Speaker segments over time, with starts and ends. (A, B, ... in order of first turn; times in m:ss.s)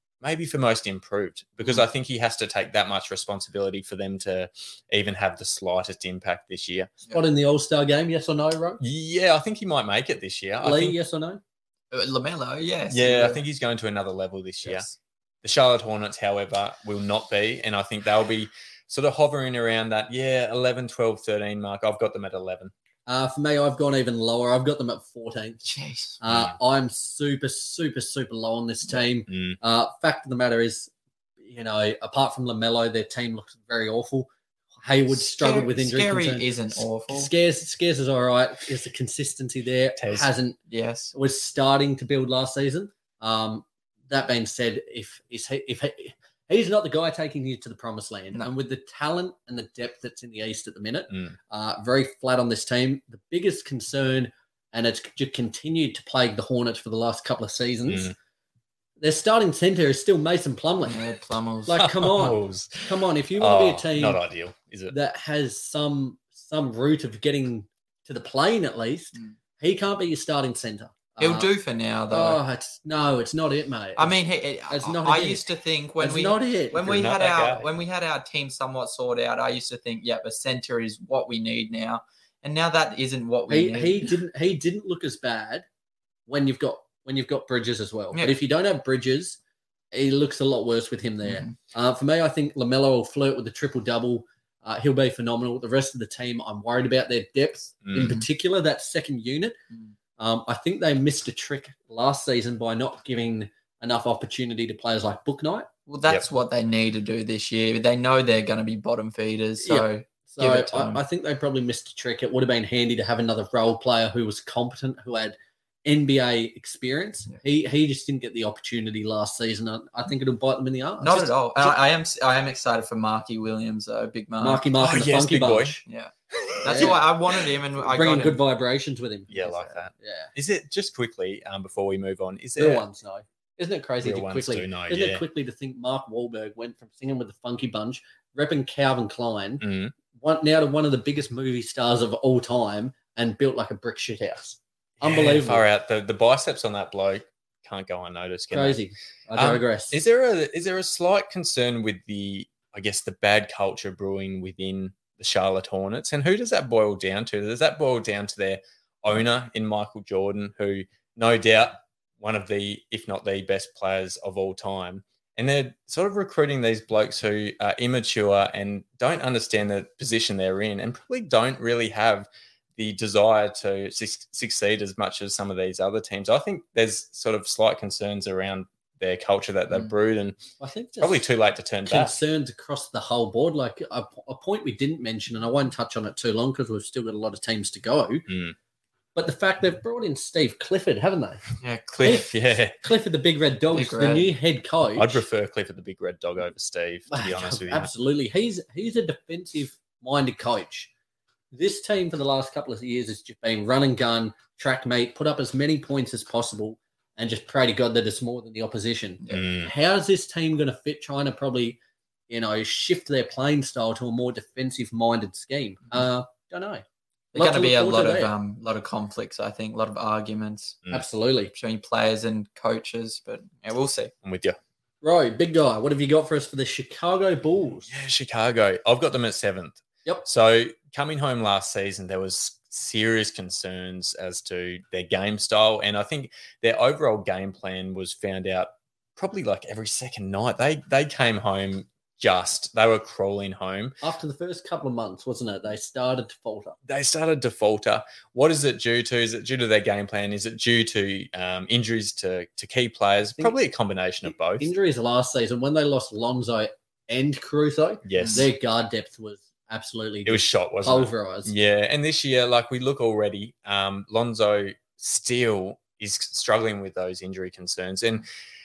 0:00.2-0:06.9 A
0:07.1-0:08.8 B
0:08.8-0:11.0 A
0:10.6-0:11.4 B
0:11.9-0:13.4 C
0:12.9-0:14.9 A
0:15.4-0:22.7 A
0:23.1-0:25.6 B
0:25.6-0:26.2 C
0:26.2-0:30.9 B
0:29.3-0:29.6 A
0:31.4-0:34.3 B
0:34.8-0:36.5 B
0:35.1-0:37.3 C
0:37.1-0:40.6 B
0:40.0-0:40.3 A
0:40.7-0:41.1 C
0:41.1-0:58.1 B
0:57.9-0:58.1 A
0:59.0-1:01.0 B
1:00.8-1:01.8 C
1:01.7-1:04.2 B
1:01.8-1:04.9 A
1:04.9-1:11.5 B
1:11.2-1:12.4 C
1:12.1-1:14.1 B
1:14.0-1:24.1 C
1:14.7-1:15.5 B
1:16.0-1:16.9 B
1:16.8-1:17.7 A
1:23.5-1:25.6 B
1:26.3-1:29.4 B
1:29.9-1:39.6 B
1:31.2-1:31.5 C
1:37.8-1:38.2 A
1:40.2-1:45.7 B
1:45.9-1:51.0 C
1:49.6-2:01.7 B
2:01.0-2:04.6 C
2:04.4-2:05.8 B
2:04.8-2:05.8 A
2:05.8-2:08.4 C
2:06.6-2:07.0 B
2:07.8-2:09.4 B
2:09.3-2:12.8 A
2:09.4-2:09.7 C
2:09.9-2:10.3 B
2:12.6-2:25.6 B
2:14.0-2:15.2 A
2:19.6-2:19.9 A
2:25.0-2:28.8 A
2:28.5-2:30.0 B
2:29.4-3:00.4 A
3:00.6-3:01.2 B
3:01.0-3:02.2 A
3:01.8-3:08.3 B
3:08.3-3:08.5 A
3:09.1-3:11.5 B
3:11.6-3:12.3 C
3:12.0-3:12.8 A
3:12.0-3:15.2 B
3:13.7-3:14.3 C
3:15.0-3:17.9 A
3:17.1-3:20.9 B
3:21.5-3:36.8 B
3:29.3-3:29.7 A
3:37.3-3:40.8 C
3:37.4-3:38.3 B
3:40.9-3:41.5 B
3:41.5-3:44.1 C
3:44.2-3:44.6 A
3:45.0-3:47.9 B
3:47.9-4:04.0 A
4:04.0-4:06.8 B
4:06.9-4:14.7 A
4:14.5-4:21.5 B
4:18.0-4:18.5 A
4:18.2-4:18.4 C
4:20.2-4:28.2 A